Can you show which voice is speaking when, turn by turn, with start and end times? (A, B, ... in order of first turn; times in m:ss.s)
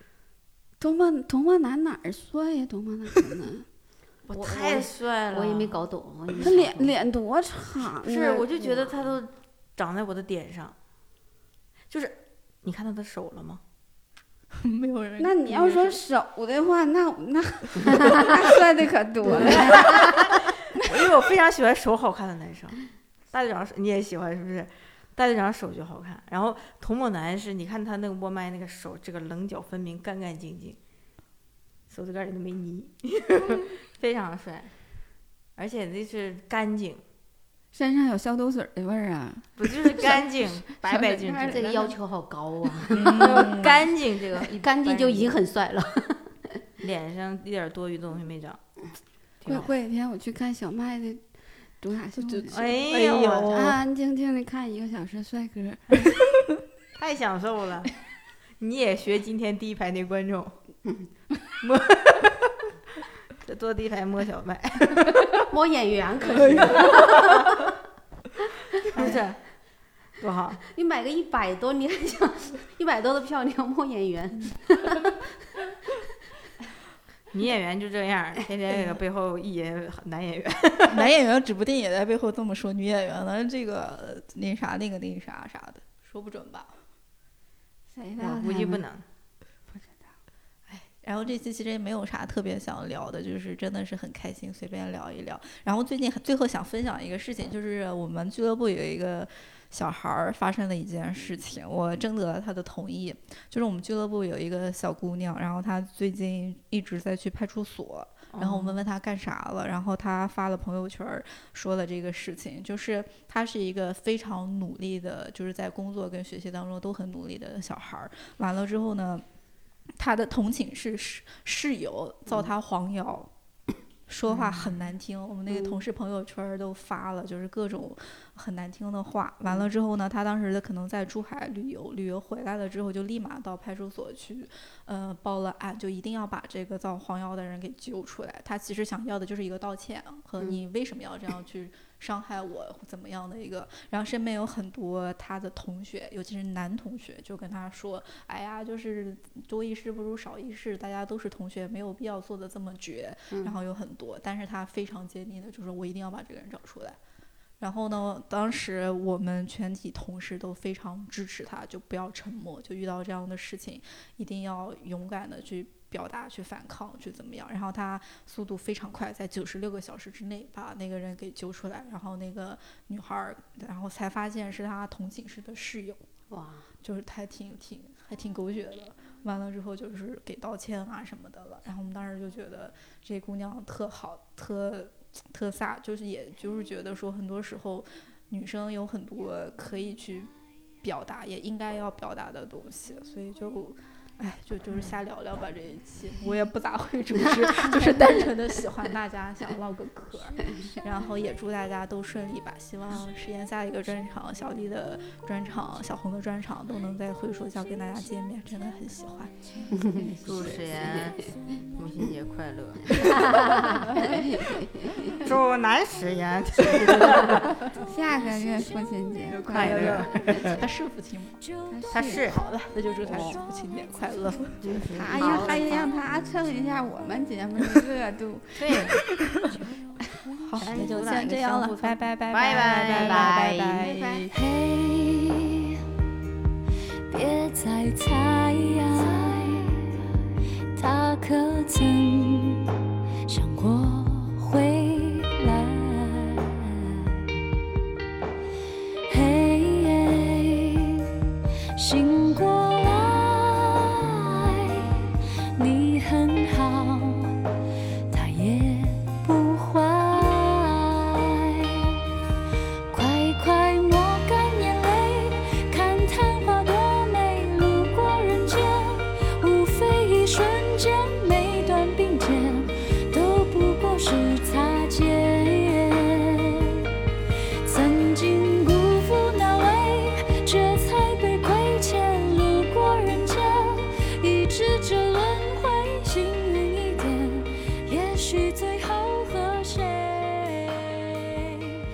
0:00.8-0:03.6 A
0:04.3-0:05.8 B
0:04.3-0:06.9 C
0:06.4-0:08.4 A
0:08.0-0:10.7 B
0:08.5-0:09.2 C
0:11.9-0:13.6 B
0:14.6-0:16.0 D
0:15.2-0:20.1 A
0:19.4-0:30.8 B
0:31.9-0:34.7 B
0:35.6-0:37.0 B
0:37.7-0:41.9 A
0:39.6-0:41.8 B
0:41.5-0:43.8 C
0:42.9-0:43.8 D
0:43.1-0:45.4 B
0:44.4-0:46.4 C
0:46.8-0:48.6 B
0:49.4-0:49.7 B
0:49.4-0:51.2 A
0:51.8-0:52.7 A
0:52.2-0:53.8 D
0:52.5-0:53.6 B
0:53.5-0:56.1 A
0:56.9-0:57.9 B
0:58.6-1:00.6 B
1:01.6-1:02.5 B
1:03.4-1:05.4 B
1:05.5-1:07.7 C
1:06.3-1:07.4 B
1:08.8-1:09.4 B
1:08.9-1:09.2 C
1:10.2-1:10.6 B
1:10.7-1:15.3 C
1:17.3-1:21.1 B
1:20.9-1:26.7 D
1:27.9-1:28.8 A
1:28.2-1:29.0 B
1:28.5-1:28.8 C
1:30.7-1:59.2 D
1:48.3-1:48.8 B
2:00.0-2:03.3 D
2:02.3-2:02.5 C
2:04.1-2:37.0 D
2:05.5-2:05.8 C
2:33.3-2:33.6 C
2:37.6-2:56.0 D
2:56.3-2:56.7 C
2:56.8-3:30.5 D
3:29.7-3:30.1 C
3:30.2-3:31.2 B
3:31.7-3:33.5 B
3:33.1-3:33.8 C
3:33.9-3:35.2 A
3:35.2-3:37.5 B
3:36.8-3:37.4 C
3:37.8-3:40.0 A
3:37.9-3:40.5 E
3:39.5-3:40.6 B
3:39.5-3:41.4 D
3:41.6-3:41.9 E
3:41.7-3:42.2 A
3:41.9-3:42.4 B
3:42.2-3:44.8 D
3:43.0-3:43.4 B
3:44.6-3:45.6 B
3:44.9-3:48.8 A
3:45.1-3:46.0 E
3:48.6-3:49.0 B
3:49.2-3:49.6 D
3:50.4-3:54.3 D
3:50.6-3:53.7 B
3:52.9-3:53.5 C
3:53.9-3:54.2 A
3:54.3-3:55.8 E
3:57.1-4:00.0 E
4:00.7-4:02.7 E
4:03.3-4:07.2 E
4:09.1-4:11.1 E
4:11.7-4:17.4 E
4:18.1-4:22.0 E
4:22.9-4:36.9 E
4:37.6-4:51.7 E